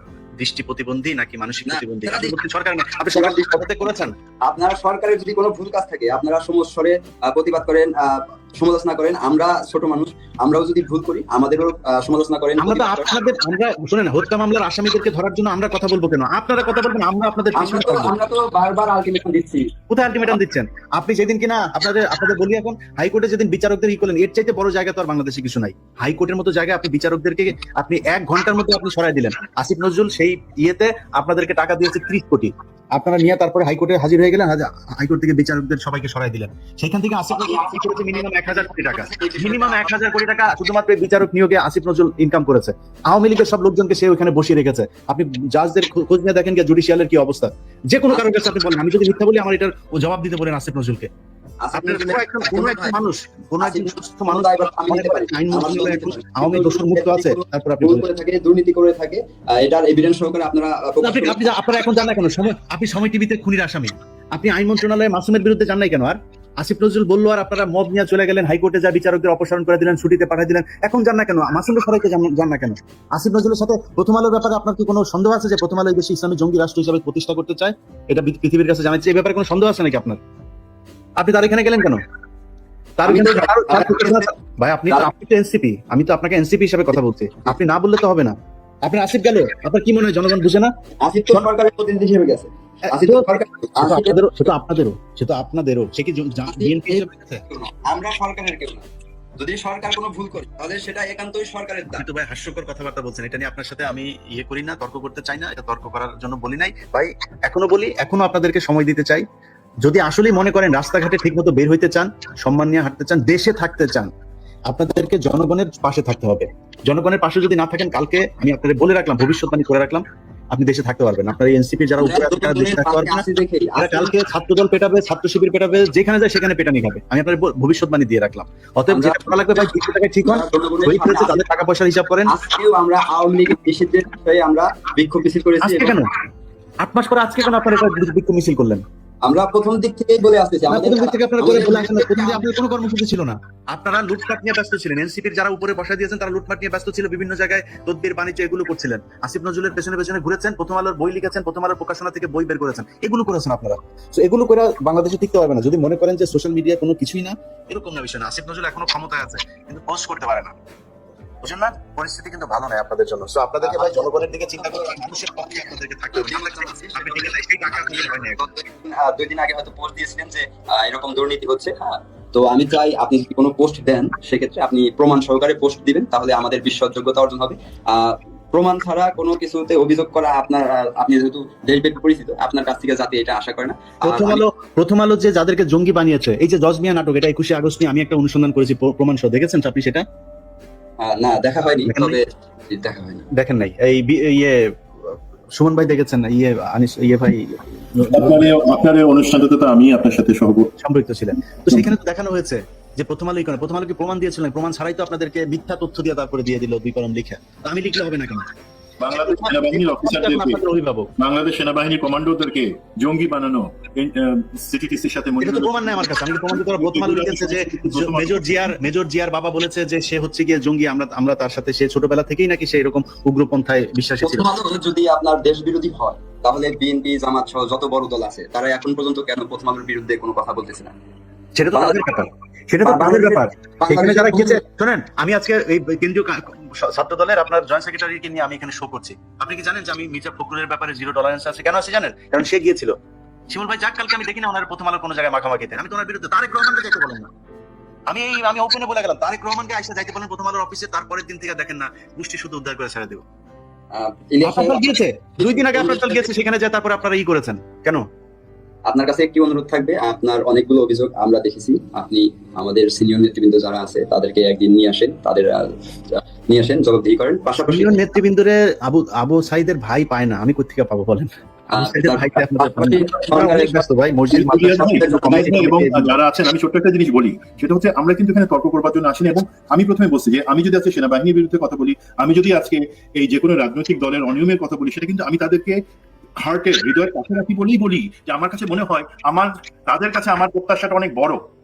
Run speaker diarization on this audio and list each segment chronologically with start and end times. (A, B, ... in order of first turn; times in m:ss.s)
0:00.4-0:04.1 A
0:01.6-0:02.4 B
0:03.0-0:13.2 B
0:12.6-0:18.1 A
0:17.5-0:19.7 B
0:19.9-0:51.1 A
0:37.3-0:40.0 B
0:48.1-0:48.5 B
0:51.6-0:53.0 B
0:51.7-0:58.0 A
0:53.6-1:01.7 B
1:01.0-1:20.2 A
1:21.2-1:22.0 A
1:23.0-1:28.3 A
1:23.1-1:24.3 B
1:28.8-1:30.7 A
1:31.0-1:34.5 B
1:32.9-1:37.4 A
1:36.5-1:38.8 B
1:39.4-1:42.0 B
1:42.0-1:49.2 A
1:49.8-1:54.1 A
1:54.7-2:03.2 A
2:02.0-2:04.1 B
2:03.8-2:12.3 A
2:08.9-2:11.4 B
2:12.3-2:16.0 B
2:15.6-2:16.1 A
2:16.8-2:18.8 A
2:19.2-2:22.5 B
2:20.7-2:40.6 A
2:41.4-2:48.4 A
2:43.6-2:45.6 B
2:46.1-3:04.4 B
3:04.0-3:10.0 A
3:11.0-3:13.3 B
3:11.9-3:12.2 A
3:13.3-3:18.4 A
3:18.0-3:20.7 C
3:20.8-3:28.5 A
3:29.0-3:30.6 C
3:29.1-3:31.1 A
3:31.2-3:38.7 C
3:35.4-3:44.5 A
3:44.2-3:50.9 B
3:51.6-4:02.9 A
3:51.7-3:52.1 B
3:52.8-3:54.6 B
4:03.5-4:07.3 A
4:08.1-4:13.2 A
4:13.9-4:16.3 B
4:14.4-4:18.0 A
4:18.9-4:28.1 B
4:27.7-4:36.2 A
4:31.7-4:35.7 B
4:34.3-4:45.8 C
4:46.4-4:51.4 C